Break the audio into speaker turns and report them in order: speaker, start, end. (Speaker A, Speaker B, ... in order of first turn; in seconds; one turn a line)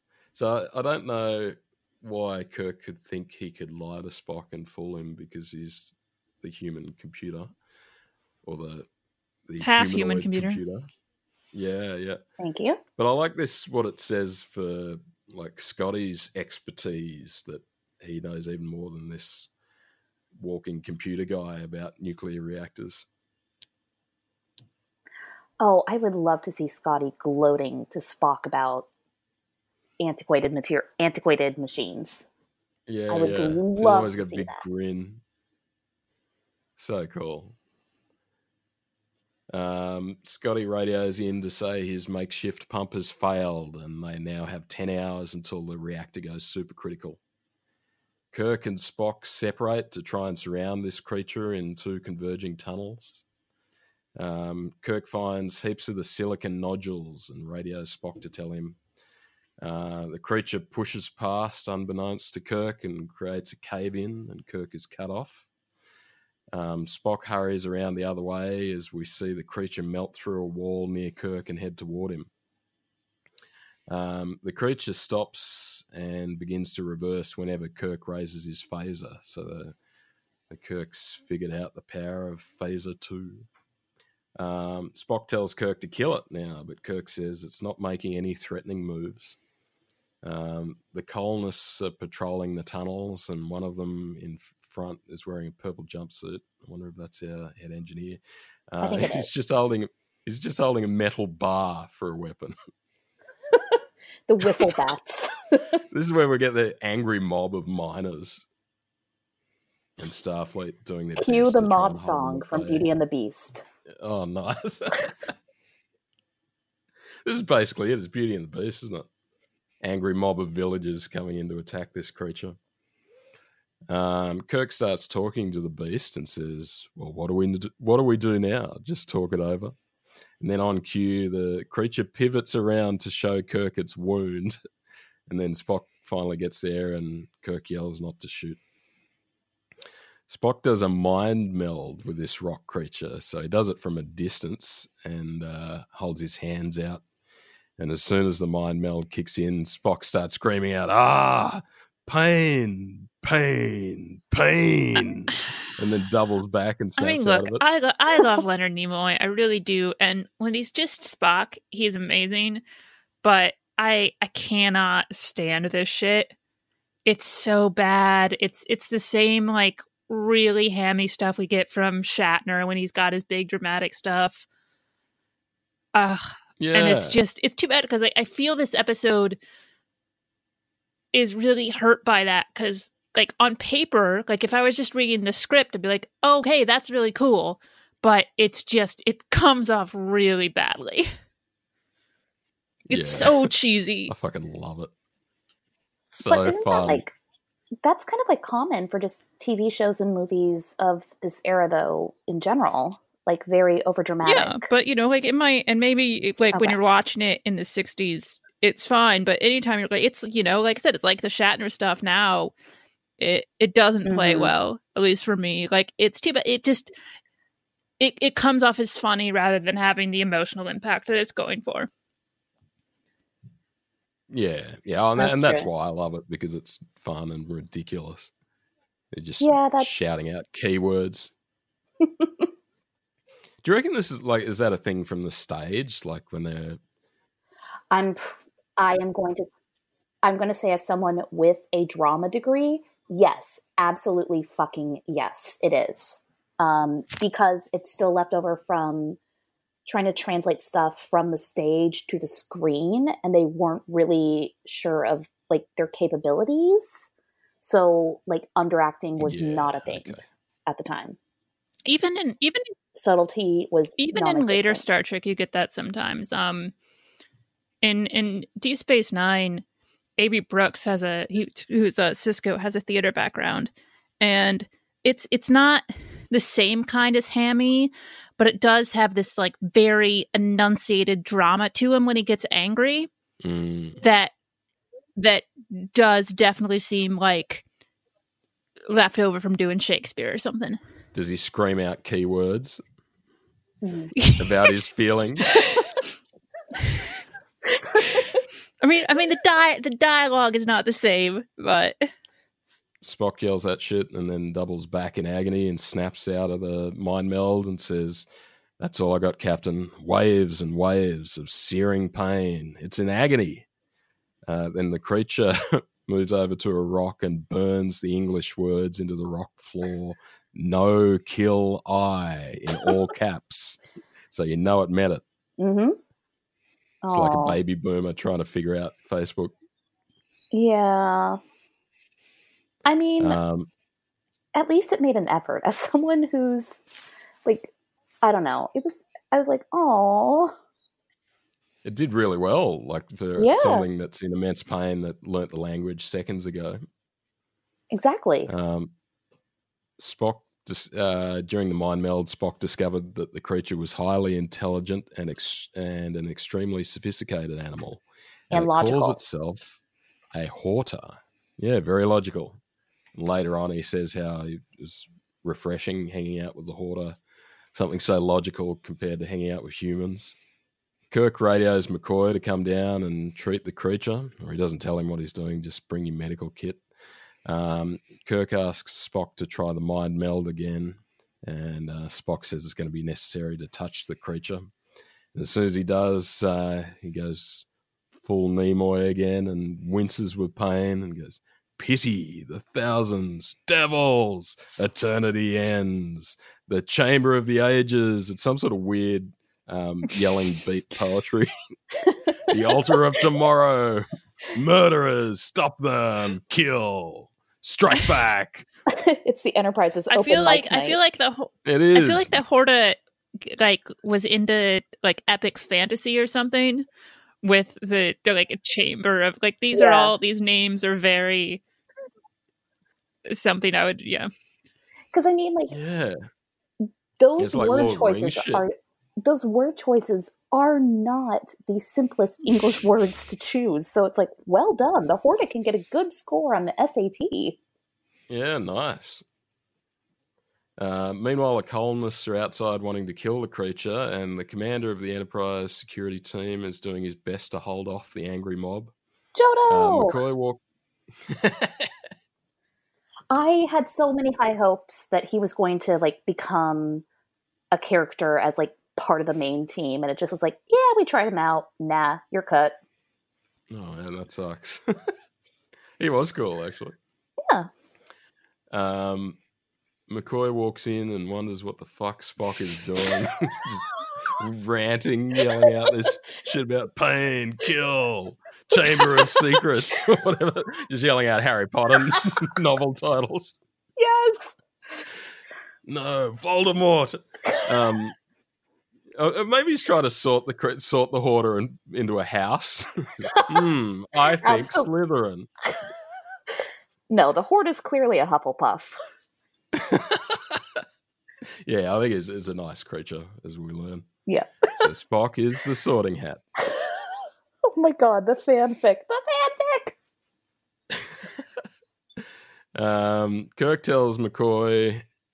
Speaker A: 0.3-7.5
Speaker A: 8.4-8.9
Speaker A: 9.5-10.9
Speaker B: 9.6-10.6
Speaker A: 11.5-12.2
Speaker C: 12.4-12.8
Speaker A: 13.0-19.5
Speaker A: 20.4-23.1
Speaker C: 25.6-28.9
Speaker C: 30.0-32.2
Speaker A: 32.9-35.2
Speaker C: 33.1-34.6
Speaker A: 36.8-37.5
Speaker A: 39.5-47.2
Speaker A: 48.3-53.2
Speaker A: 54.2-58.8
Speaker A: 59.6-65.5
Speaker A: 66.5-72.3
Speaker A: 73.9-79.8
Speaker A: 80.5-83.5
Speaker A: 84.4-89.4
Speaker A: 90.2-102.5
Speaker C: 98.8-99.3
Speaker C: 103.5-105.8
Speaker A: 105.9-108.5
Speaker A: 110.0-112.9
Speaker C: 111.2-113.6
Speaker A: 113.9-115.3
Speaker A: 117.2-119.1
Speaker A: 119.8-122.6
Speaker A: 123.9-129.8
Speaker A: 130.4-134.6
Speaker A: 135.3-138.6
Speaker A: 140.3-147.0
Speaker A: 147.8-157.6
Speaker B: 157.0-162.6
Speaker B: 163.2-166.3
Speaker B: 167.1-174.5
Speaker B: 175.9-179.4
Speaker A: 176.6-177.2
Speaker B: 181.1-191.1
Speaker A: 192.9-193.5
Speaker B: 192.9-194.1
Speaker A: 194.1-194.9
Speaker A: 196.1-197.1
Speaker C: 196.3-197.1
Speaker C: 197.8-204.7
Speaker B: 204.2-212.5
Speaker B: 213.2-216.9
Speaker C: 214.1-214.5
Speaker B: 218.0-221.9
Speaker A: 224.3-228.3
Speaker C: 225.2-225.7
Speaker A: 229.1-231.3
Speaker C: 229.4-229.9
Speaker C: 232.2-232.5
Speaker A: 233.6-236.8
Speaker C: 237.9-239.5
Speaker C: 240.2-249.2
Speaker C: 249.9-257.1
Speaker C: 257.6-260.1
Speaker A: 259.2-260.2
Speaker C: 260.7-261.2
Speaker B: 261.9-262.7
Speaker C: 262.9-264.9
Speaker B: 264.0-266.7
Speaker B: 267.8-269.6
Speaker B: 270.2-283.1
Speaker A: 283.4-284.0
Speaker B: 284.0-284.3
Speaker B: 285.2-287.6
Speaker B: 288.9-290.8
Speaker A: 291.1-292.8
Speaker C: 293.8-294.1
Speaker B: 294.2-294.8
Speaker A: 294.4-295.6
Speaker B: 295.5-295.9
Speaker B: 298.8-302.1
Speaker A: 303.0-308.3
Speaker A: 308.8-313.7
Speaker A: 314.5-323.8
Speaker A: 324.3-325.2
Speaker C: 325.6-326.0
Speaker C: 327.0-327.6
Speaker A: 327.1-329.5
Speaker C: 330.5-331.4
Speaker C: 332.9-333.4
Speaker A: 333.2-333.7
Speaker C: 334.6-336.8
Speaker C: 337.4-340.5
Speaker A: 341.8-346.8
Speaker C: 343.4-343.9
Speaker C: 347.9-348.5
Speaker A: 348.5-348.9
Speaker A: 350.0-359.8
Speaker C: 358.5-359.2
Speaker A: 360.3-362.6
Speaker A: 363.1-367.2
Speaker A: 367.7-370.4
Speaker A: 371.1-376.8
Speaker A: 377.5-384.7
Speaker A: 385.3-401.5
Speaker C: 402.1-403.0
Speaker A: 402.5-408.7
Speaker C: 408.9-411.0
Speaker B: 410.1-416.9
Speaker A: 411.6-412.4
Speaker B: 417.4-421.6
Speaker C: 419.7-420.1
Speaker B: 423.3-424.3
Speaker C: 425.1-425.8
Speaker A: 425.7-426.2
Speaker C: 427.2-437.6
Speaker A: 427.4-428.6
Speaker A: 438.3-439.2
Speaker A: 440.8-448.9
Speaker C: 449.4-450.2
Speaker A: 449.7-450.6
Speaker A: 451.3-451.9
Speaker C: 453.3-457.1
Speaker C: 457.7-462.8
Speaker A: 463.7-465.1
Speaker A: 466.0-467.0
Speaker A: 468.7-469.4
Speaker A: 470.1-483.6
Speaker C: 479.0-479.4
Speaker C: 484.0-484.6
Speaker A: 485.9-488.2
Speaker A: 489.2-495.5
Speaker C: 494.4-494.9
Speaker C: 497.1-498.9
Speaker A: 499.7-500.8
Speaker A: 501.6-504.1
Speaker C: 504.3-504.9
Speaker A: 504.8-506.4
Speaker C: 507.7-510.0
Speaker A: 512.8-515.0